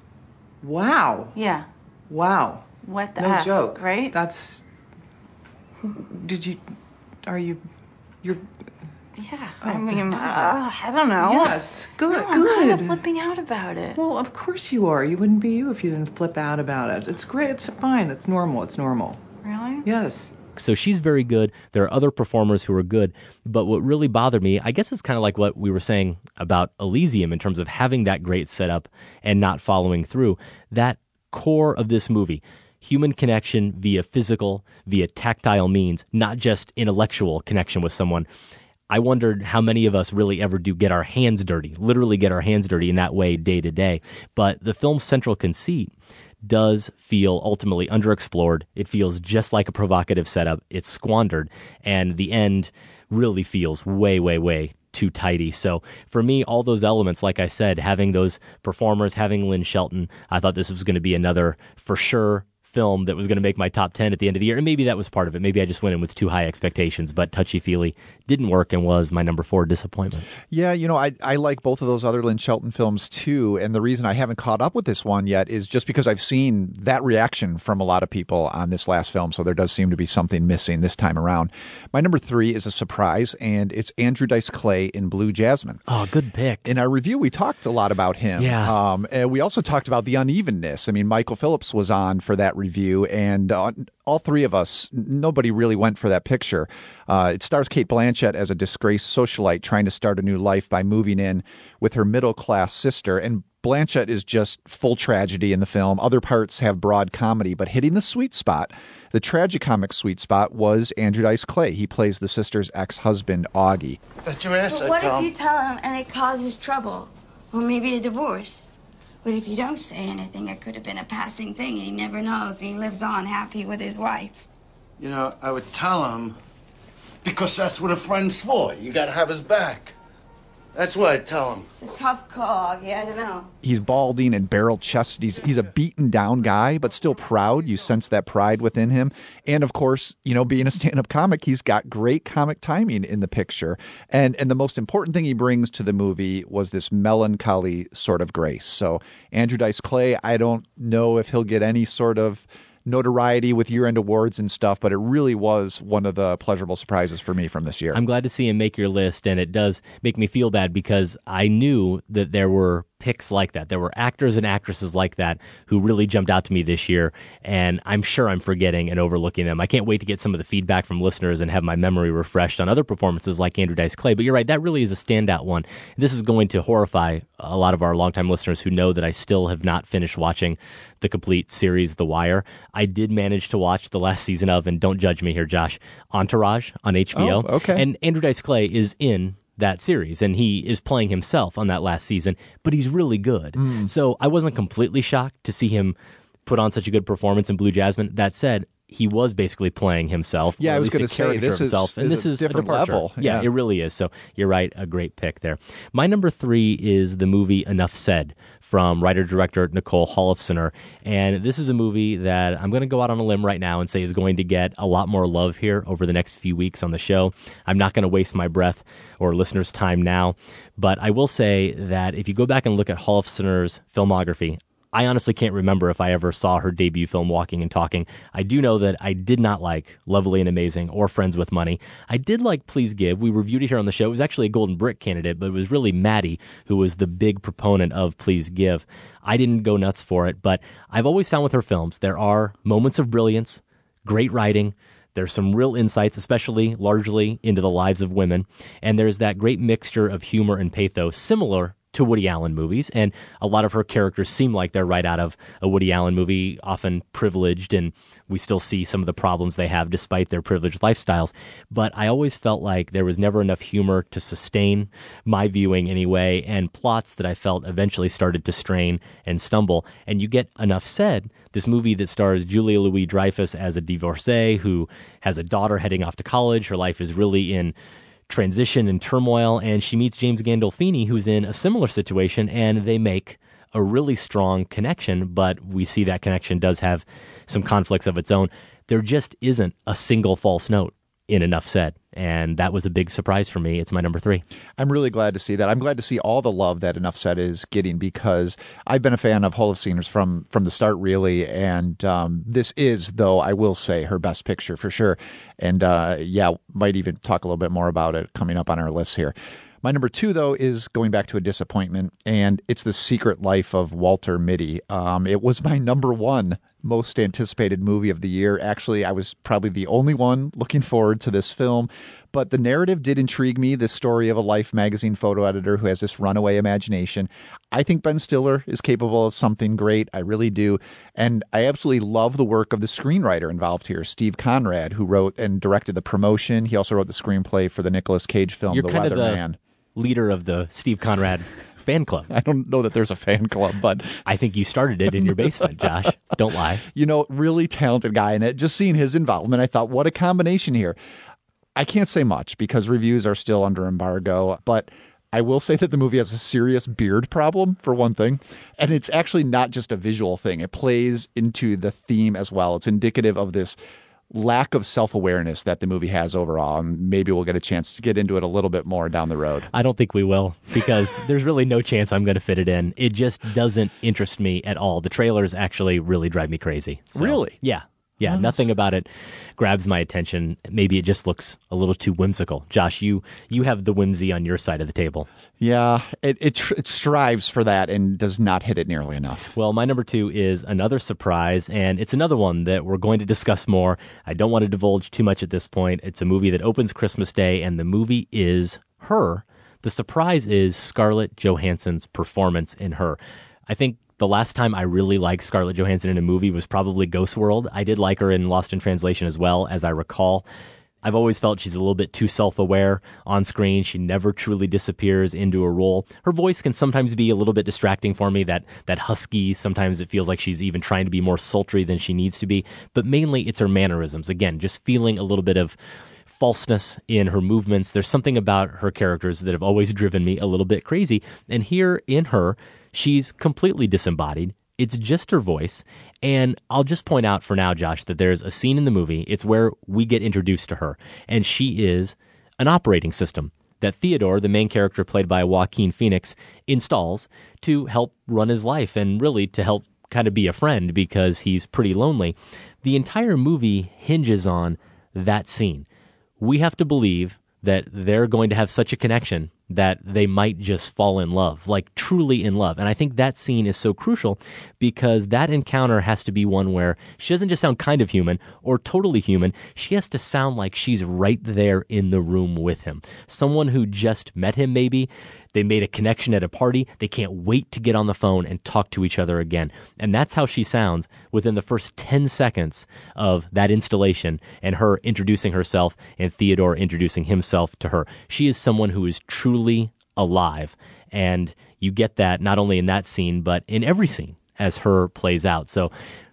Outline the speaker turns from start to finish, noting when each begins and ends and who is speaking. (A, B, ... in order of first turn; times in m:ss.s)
0:00.6-0:01.3 A
0:01.4-0:01.7 B
0:02.1-0:02.6 A
0:02.8-0:04.2 B
0:03.2-0:04.6 A
0:06.0-0:06.6 A
0:07.2-0:07.6 A
0:09.2-0:14.0 B
0:09.6-0:10.6 A
0:11.2-0:13.0 A
0:14.0-0:19.2 A
0:19.4-0:19.9 B
0:19.8-0:20.3 A
0:20.6-0:38.3 C
0:38.9-0:45.9 C
0:46.4-1:10.3 C
1:10.5-1:25.8 D
1:25.9-1:26.6 C
1:26.6-1:54.0 D
1:28.4-1:28.8 C
1:54.2-1:55.3 E
1:54.7-1:58.7 F
1:59.2-2:04.5 F
2:05.0-2:06.4 E
2:07.2-2:09.9 E
2:10.8-2:11.7 E
2:11.7-2:13.5 F
2:13.6-2:38.0 D
2:37.9-4:37.8 C
3:07.1-3:07.8 D
3:13.6-3:13.9 D
3:20.6-3:23.5 D
4:38.3-4:54.4 C
4:54.8-5:39.6 D
5:38.7-5:39.4 C
5:40.0-5:42.3 C
5:42.3-5:44.2 D
5:44.3-5:46.8 C
5:46.8-5:51.0 D
5:51.8-6:03.8 D
6:04.3-6:09.7 D
6:09.7-6:25.3 C
6:17.2-6:17.6 D
6:18.2-6:18.7 D
6:25.6-6:29.4 D
6:29.6-6:50.5 C
6:51.0-7:05.8 C
7:06.3-7:35.9 C
7:36.4-8:15.9 C